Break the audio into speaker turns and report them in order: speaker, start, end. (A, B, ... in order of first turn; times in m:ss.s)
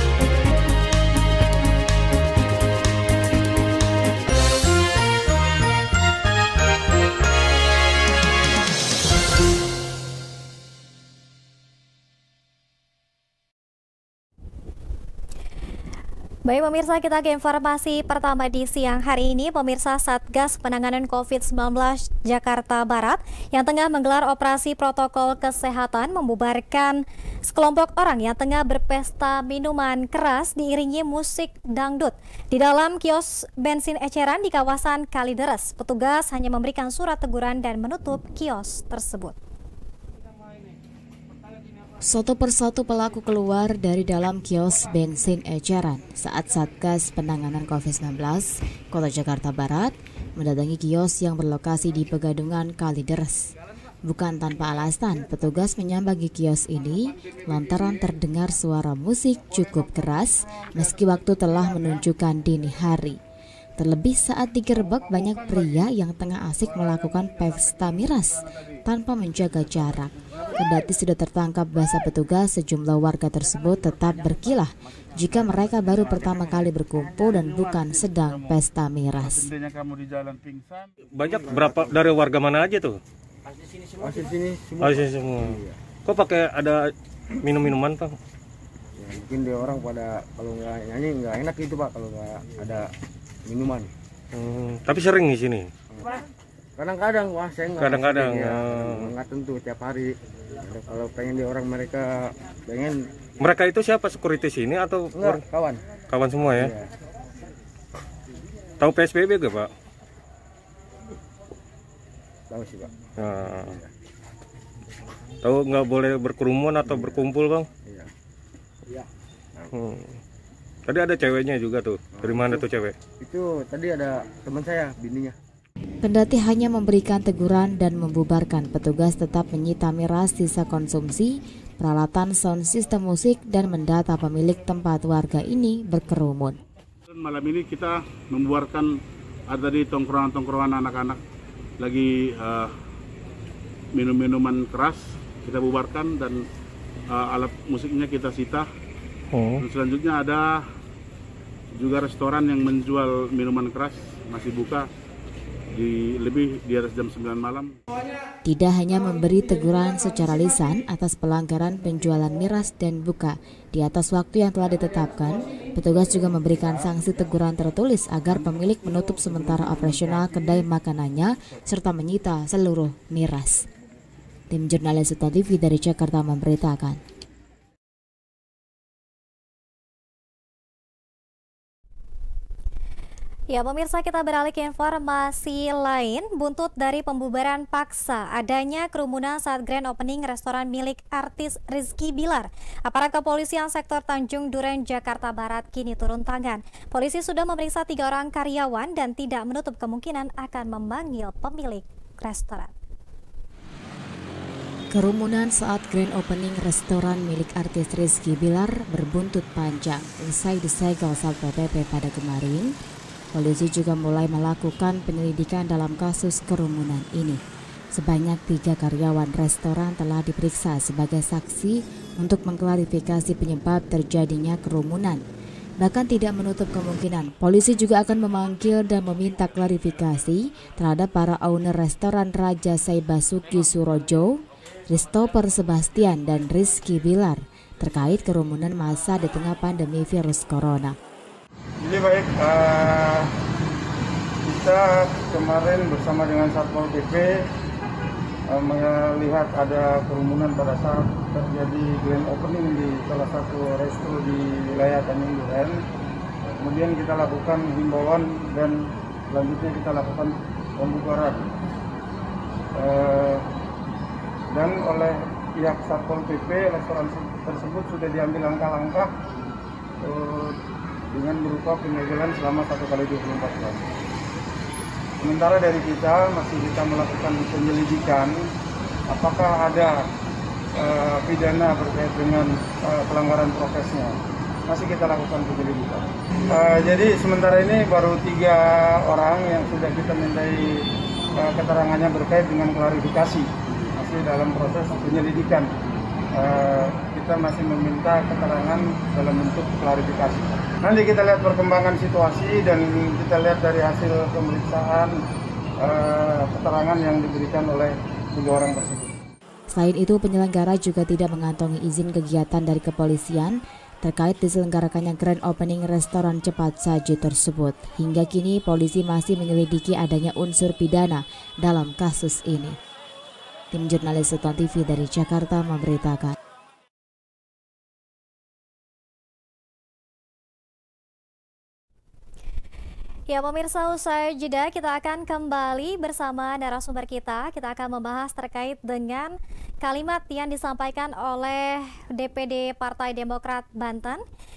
0:16.4-0:39.4 A
0:42.0-1:03.2 B
1:03.8-1:19.5 B
1:17.3-1:18.6 C
1:19.2-1:20.9 C
1:21.1-1:23.0 D
1:21.3-1:22.0 E
1:24.0-1:25.8 E
1:24.8-1:26.9 D
1:27.4-1:28.2 D
1:29.0-1:32.9 E
1:33.5-1:33.9 E
1:34.3-1:35.7 D
1:36.8-1:43.1 E
1:37.8-1:39.1 D
1:43.4-1:45.4 D
1:45.1-1:45.8 E
1:46.1-1:46.7 D
1:46.6-1:46.9 E
1:48.8-1:49.7 D
1:52.5-1:53.9 E
1:53.2-1:53.8 D
1:55.4-1:57.7 D
1:56.8-1:57.3 E
1:57.8-1:58.1 E
1:59.7-2:00.2 D
2:00.9-2:03.0 D
2:02.1-2:02.7 E
2:03.2-2:05.4 E
2:06.0-2:16.6 B
2:17.1-2:21.2 C
2:21.8-2:22.7 C
2:23.9-2:26.4 C
2:27.1-2:28.7 C
2:29.3-2:29.6 D
2:29.6-2:30.7 C
2:31.8-2:34.9 C
2:35.7-2:37.8 C
2:38.4-2:53.7 B
2:54.5-2:57.0 B
3:03.5-3:22.7 A
3:24.9-3:32.8 B
3:33.3-3:37.4 B
3:37.9-3:45.2 B
3:45.8-4:01.0 B
4:01.8-4:03.3 F
4:04.4-4:07.5 F
4:08.5-4:15.8 F
4:16.6-4:21.5 F
4:22.8-4:23.5 F
4:24.5-4:29.1 F
4:30.0-4:30.6 F
4:31.1-4:33.9 F
4:35.2-4:38.4 F
4:39.1-4:40.1 F
4:40.8-4:50.8 F
4:51.4-4:55.7 F
4:56.3-5:05.2 F
5:05.8-5:09.2 F
5:09.7-5:22.8 B
5:23.7-5:26.4 B
5:33.3-5:44.2 A